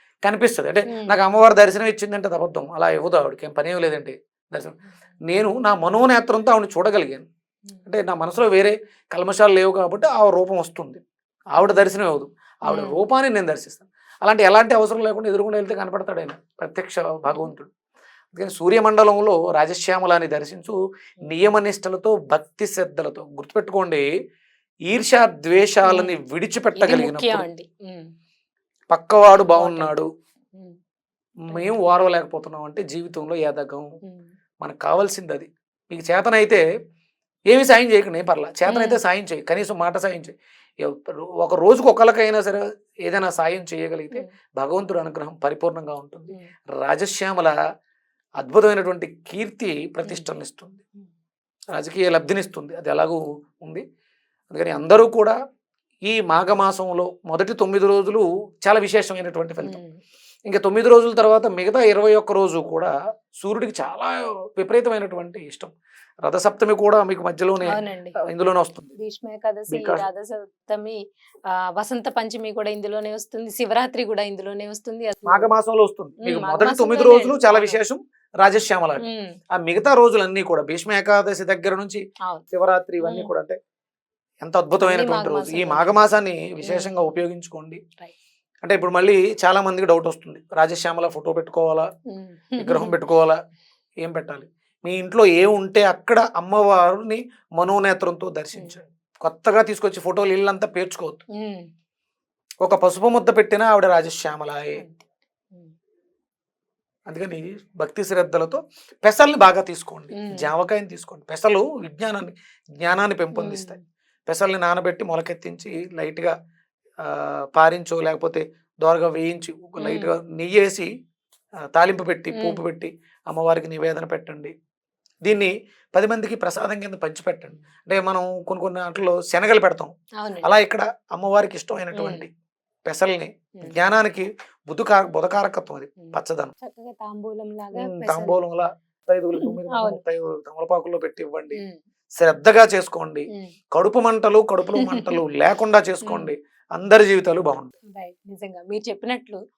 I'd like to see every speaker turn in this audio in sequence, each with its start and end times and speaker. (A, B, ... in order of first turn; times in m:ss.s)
0:00.2-0:04.8 A
0:00.9-0:01.2 B
0:05.3-0:07.2 A
0:07.9-0:17.7 A
0:11.6-0:11.9 B
0:12.7-0:13.0 B
0:18.3-0:24.1 A
0:24.9-0:27.4 A
0:25.8-0:26.1 B
0:26.8-0:28.1 B
0:28.9-0:30.1 A
0:29.2-0:30.0 B
0:31.5-0:33.9 A
0:34.0-0:34.3 B
0:34.6-0:36.6 A
0:37.5-0:47.5 A
0:38.7-0:39.0 B
0:48.4-0:50.8 A
0:50.0-0:50.3 B
0:51.7-0:53.8 A
0:54.5-0:55.4 A
0:56.1-0:59.8 A
0:59.6-1:00.0 B
1:00.5-1:05.7 A
1:06.2-1:08.9 A
1:07.6-1:08.1 B
1:09.0-1:15.5 B
1:09.7-1:10.0 A
1:15.2-1:22.0 A
1:16.2-1:17.8 B
1:19.0-1:19.4 B
1:22.5-1:23.6 A
1:23.0-1:23.3 B
1:24.4-1:27.8 A
1:24.8-1:26.0 B
1:26.6-1:26.9 B
1:28.6-1:31.9 A
1:32.1-1:33.0 B
1:32.6-1:33.4 A
1:34.0-1:41.2 A
1:41.4-1:41.7 B
1:42.6-1:44.8 A
1:44.8-1:45.7 B
1:47.1-1:53.8 A
1:50.2-1:50.5 B
1:53.4-1:53.8 B
1:54.3-1:56.4 A
1:57.0-2:00.9 A
1:59.8-2:00.1 B
2:01.7-2:04.5 A
2:02.3-2:02.6 B
2:05.2-2:12.3 A
2:10.2-2:10.5 B
2:11.9-2:12.2 B
2:12.9-2:16.5 A
2:16.0-2:18.4 B
2:17.8-2:21.6 A
2:19.4-2:20.0 B
2:22.2-2:27.8 A
2:24.8-2:25.2 B
2:26.0-2:26.3 B
2:27.9-2:29.4 B